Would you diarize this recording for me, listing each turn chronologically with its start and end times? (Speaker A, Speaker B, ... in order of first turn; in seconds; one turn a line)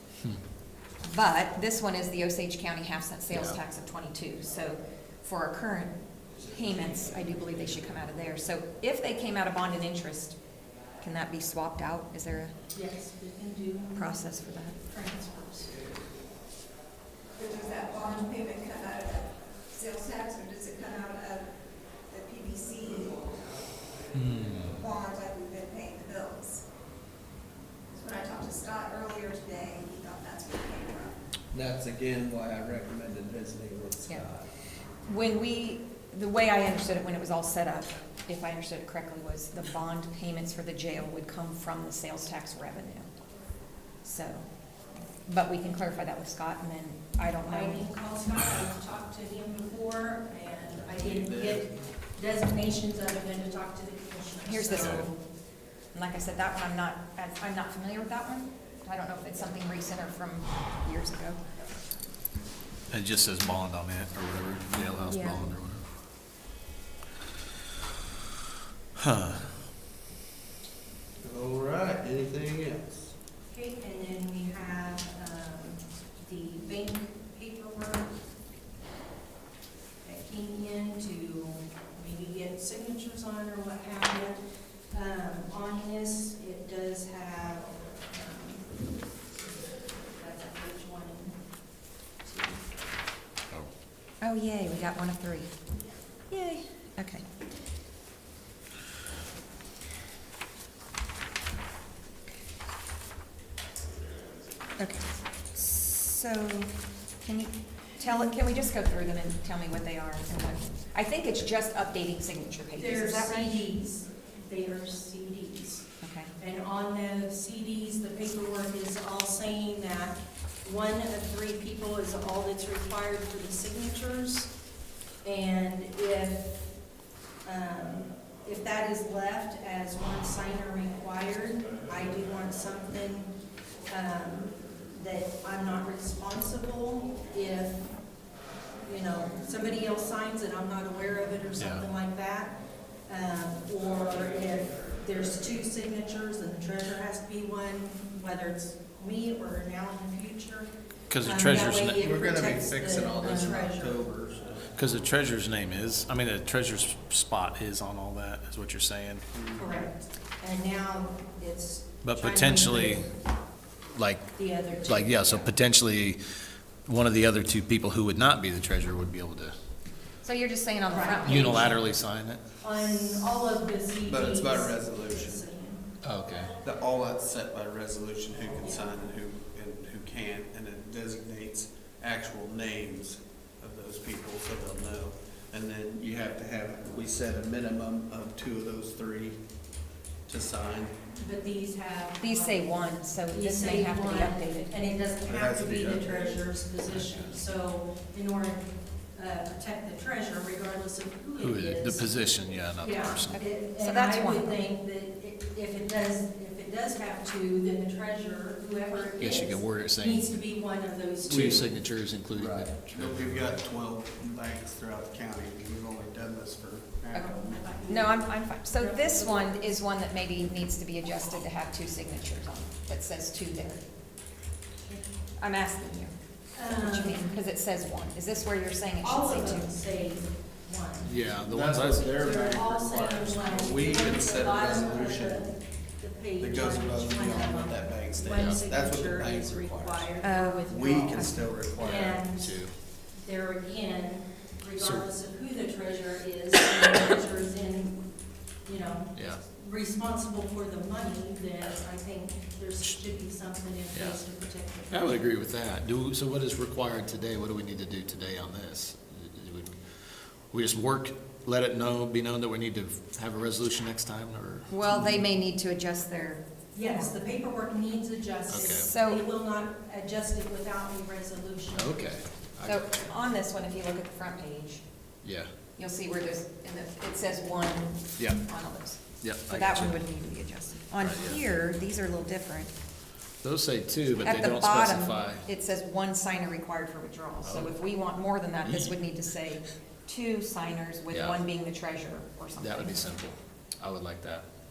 Speaker A: 1.0-10.4
Speaker A: 11.0-12.6
Speaker B: 12.7-14.1
Speaker A: 13.9-14.8
Speaker B: 14.8-15.8
Speaker C: 17.3-21.5
Speaker C: 22.1-23.4
Speaker D: 24.1-24.8
Speaker C: 24.7-26.6
Speaker C: 27.9-31.2
Speaker E: 31.5-34.5
Speaker A: 35.0-43.1
Speaker A: 44.0-44.5
Speaker A: 45.2-47.8
Speaker B: 47.5-55.1
Speaker E: 50.9-51.6
Speaker A: 54.4-55.1
Speaker D: 54.8-55.0
Speaker A: 55.9-61.5
Speaker D: 62.9-65.8
Speaker A: 65.1-65.4
Speaker D: 69.0-69.6
Speaker E: 71.2-73.1
Speaker B: 73.5-78.1
Speaker B: 80.0-88.7
Speaker B: 90.1-91.4
Speaker B: 92.2-92.7
Speaker A: 94.2-95.5
Speaker A: 96.3-97.2
Speaker A: 104.8-113.5
Speaker B: 112.8-115.9
Speaker A: 116.0-116.3
Speaker B: 116.4-124.5
Speaker B: 125.2-126.5
Speaker B: 127.4-133.3
Speaker B: 133.9-137.9
Speaker B: 138.8-150.7
Speaker D: 141.6-141.8
Speaker D: 151.1-152.1
Speaker B: 151.2-154.0
Speaker E: 152.0-154.7
Speaker D: 154.8-159.2
Speaker E: 159.3-159.7
Speaker B: 159.6-163.1
Speaker D: 162.0-163.1
Speaker D: 163.9-164.3
Speaker B: 164.3-165.5
Speaker D: 164.9-166.2
Speaker D: 166.8-169.6
Speaker A: 170.2-171.8
Speaker B: 170.9-171.6
Speaker D: 171.2-172.4
Speaker B: 172.6-175.8
Speaker E: 174.1-175.4
Speaker D: 176.0-176.5
Speaker E: 176.6-189.4
Speaker B: 178.6-178.9
Speaker E: 190.3-190.9
Speaker B: 191.1-192.8
Speaker A: 192.2-194.8
Speaker B: 193.3-202.1
Speaker E: 195.2-196.4
Speaker D: 201.4-203.4
Speaker B: 202.8-211.6
Speaker A: 203.3-204.6
Speaker D: 209.2-210.3
Speaker E: 211.3-211.7
Speaker D: 211.3-213.6
Speaker E: 212.3-217.8
Speaker A: 217.1-223.8
Speaker B: 217.2-218.2
Speaker B: 218.7-219.5
Speaker A: 225.4-229.7
Speaker B: 226.6-227.2
Speaker B: 229.0-231.2
Speaker D: 231.0-232.2
Speaker E: 231.4-235.5
Speaker B: 232.2-242.5
Speaker E: 236.4-240.2
Speaker A: 240.2-240.7
Speaker E: 240.7-242.2
Speaker D: 242.3-242.7
Speaker B: 243.2-248.0
Speaker D: 244.8-245.0
Speaker B: 248.6-255.2
Speaker D: 249.1-249.4
Speaker D: 253.9-254.2
Speaker D: 254.9-264.7
Speaker A: 264.7-267.1
Speaker B: 266.7-272.1
Speaker D: 268.5-268.9
Speaker A: 268.5-269.2
Speaker D: 271.7-272.8
Speaker A: 272.6-274.8
Speaker D: 275.2-275.5
Speaker A: 275.8-282.7
Speaker D: 279.2-280.0
Speaker D: 281.0-281.4
Speaker D: 283.4-285.5
Speaker A: 284.2-293.1
Speaker D: 287.4-287.7
Speaker D: 288.6-288.9
Speaker D: 291.1-291.4
Speaker D: 292.6-294.4